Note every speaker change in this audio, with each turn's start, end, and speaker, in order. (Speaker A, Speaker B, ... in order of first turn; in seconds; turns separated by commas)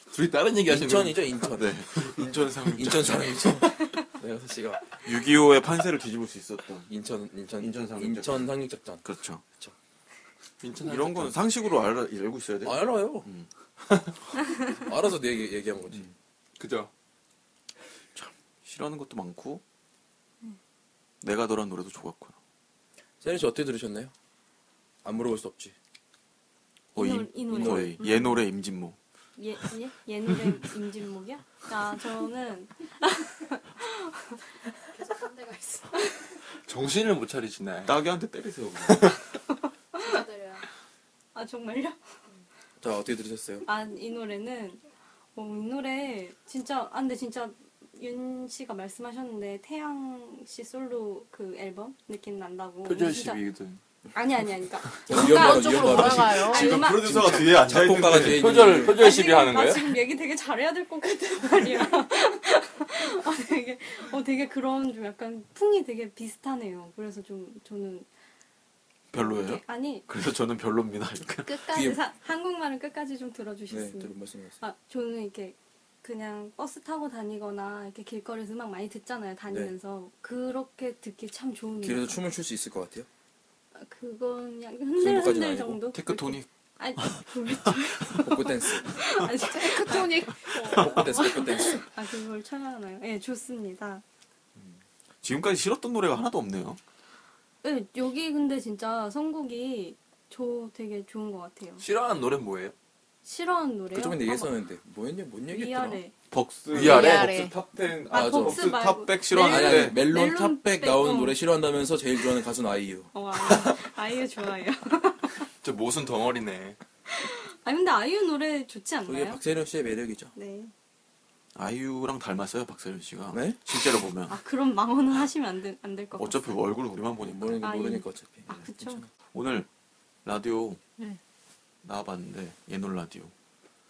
Speaker A: 0.1-1.3, Speaker B: 0.7-2.0, Speaker C: 1.5-3.5, Speaker B: 2.7-5.0, Speaker C: 5.0-6.9, Speaker B: 6.9-9.8, Speaker C: 7.6-8.5, Speaker C: 9.0-9.4, Speaker A: 10.6-11.4, Speaker C: 10.8-13.5, Speaker B: 12.6-13.3, Speaker B: 14.8-16.1, Speaker A: 16.6-16.9, Speaker C: 18.6-19.6, Speaker C: 21.2-22.4, Speaker B: 23.2-24.1, Speaker B: 25.0-25.8, Speaker C: 26.9-29.0, Speaker D: 27.0-28.4, Speaker B: 27.5-28.0, Speaker D: 29.4-34.4, Speaker E: 34.9-36.0, Speaker A: 36.6-38.0, Speaker C: 37.9-39.1, Speaker A: 38.9-39.1, Speaker E: 40.0-40.6, Speaker D: 41.4-42.0, Speaker B: 42.8-43.6, Speaker D: 43.6-44.8, Speaker D: 45.4-53.4, Speaker A: 52.9-53.8, Speaker D: 54.1-57.4, Speaker E: 55.1-56.8, Speaker B: 55.1-59.1, Speaker C: 56.5-58.6, Speaker A: 58.2-60.0, Speaker D: 58.8-68.1, Speaker C: 69.1-71.6, Speaker D: 69.1-70.1, Speaker D: 71.5-82.2, Speaker B: 71.7-72.0, Speaker B: 73.7-74.6, Speaker B: 81.8-83.1, Speaker D: 83.8-94.0, Speaker B: 85.0-85.8, Speaker C: 85.9-87.3, Speaker B: 88.2-89.0, Speaker E: 89.5-90.8, Speaker B: 90.6-91.9, Speaker C: 95.2-96.8, Speaker D: 97.6-101.8, Speaker A: 101.8-102.8, Speaker D: 103.2-104.5, Speaker B: 103.9-106.0, Speaker D: 105.5-106.1, Speaker C: 106.3-110.0, Speaker A: 106.7-107.3, Speaker E: 106.8-107.6, Speaker D: 108.1-111.4, Speaker B: 108.1-108.7, Speaker B: 109.3-113.7, Speaker D: 113.1-115.3, Speaker A: 115.6-116.8, Speaker D: 117.1-119.4, Speaker B: 119.0-120.3, Speaker D: 120.3-120.7, Speaker C: 121.5-124.4, Speaker B: 123.3-123.6, Speaker D: 124.3-126.8, Speaker C: 126.1-127.7, Speaker B: 127.2-129.1, Speaker D: 127.6-129.0, Speaker C: 129.3-129.7, Speaker C: 130.2-130.8, Speaker C: 131.8-133.3